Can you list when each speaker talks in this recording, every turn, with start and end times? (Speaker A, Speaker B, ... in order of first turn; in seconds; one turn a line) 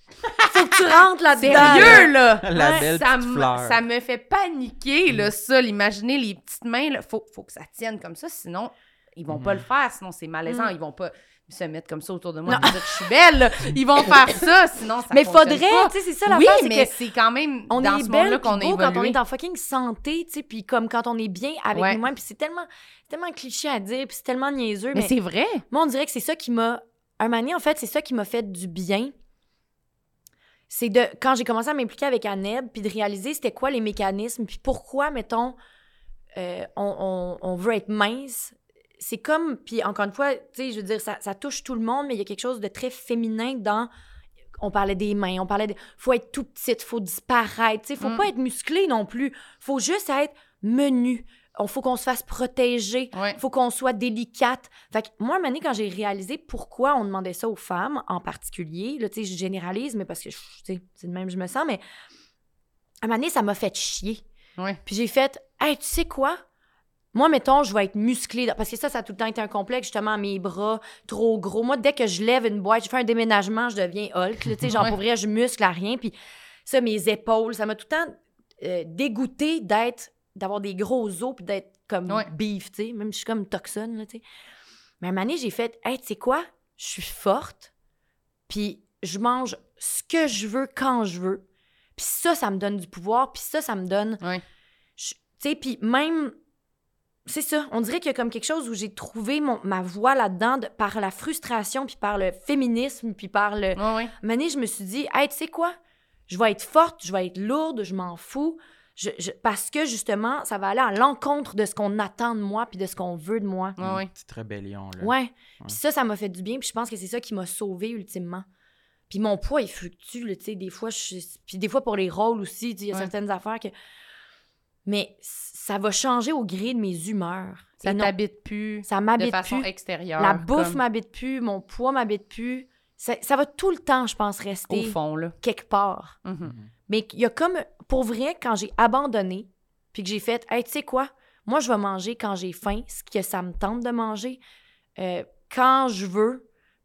Speaker A: 0.4-2.9
Speaker B: 1.3-19.2
Speaker C: 1.4-3.8
Speaker C: 9.3-9.6
Speaker A: 10.5-10.7
Speaker A: 12.5-12.8
Speaker C: 12.5-12.8
Speaker A: 15.1-16.9
Speaker A: 17.7-25.1
Speaker B: 21.7-22.0
Speaker B: 24.9-25.6
Speaker A: 25.7-29.1
Speaker A: 30.7-35.6
Speaker A: 36.4-43.9
Speaker A: 44.6-61.8
Speaker B: 48.0-48.3
Speaker B: 53.1-53.4
Speaker A: 63.0-64.2
Speaker A: 64.9-66.4
Speaker A: 67.1-76.1
Speaker B: 74.7-75.0
Speaker A: 76.7-84.2
Speaker A: 85.0-87.7
Speaker A: 88.5-91.4
Speaker A: 92.0-94.2
Speaker A: 95.0-96.3
Speaker A: 97.3-105.8
Speaker B: 103.8-104.1
Speaker A: 106.3-113.8
Speaker B: 113.8-114.1
Speaker C: 113.8-115.8
Speaker A: 115.0-118.5
Speaker A: 119.1-123.7
Speaker A: 124.9-128.1
Speaker B: 127.8-130.8
Speaker A: 128.9-136.2
Speaker B: 134.7-135.4
Speaker B: 136.2-136.6
Speaker C: 136.5-136.7
Speaker A: 136.9-144.4
Speaker A: 145.0-146.4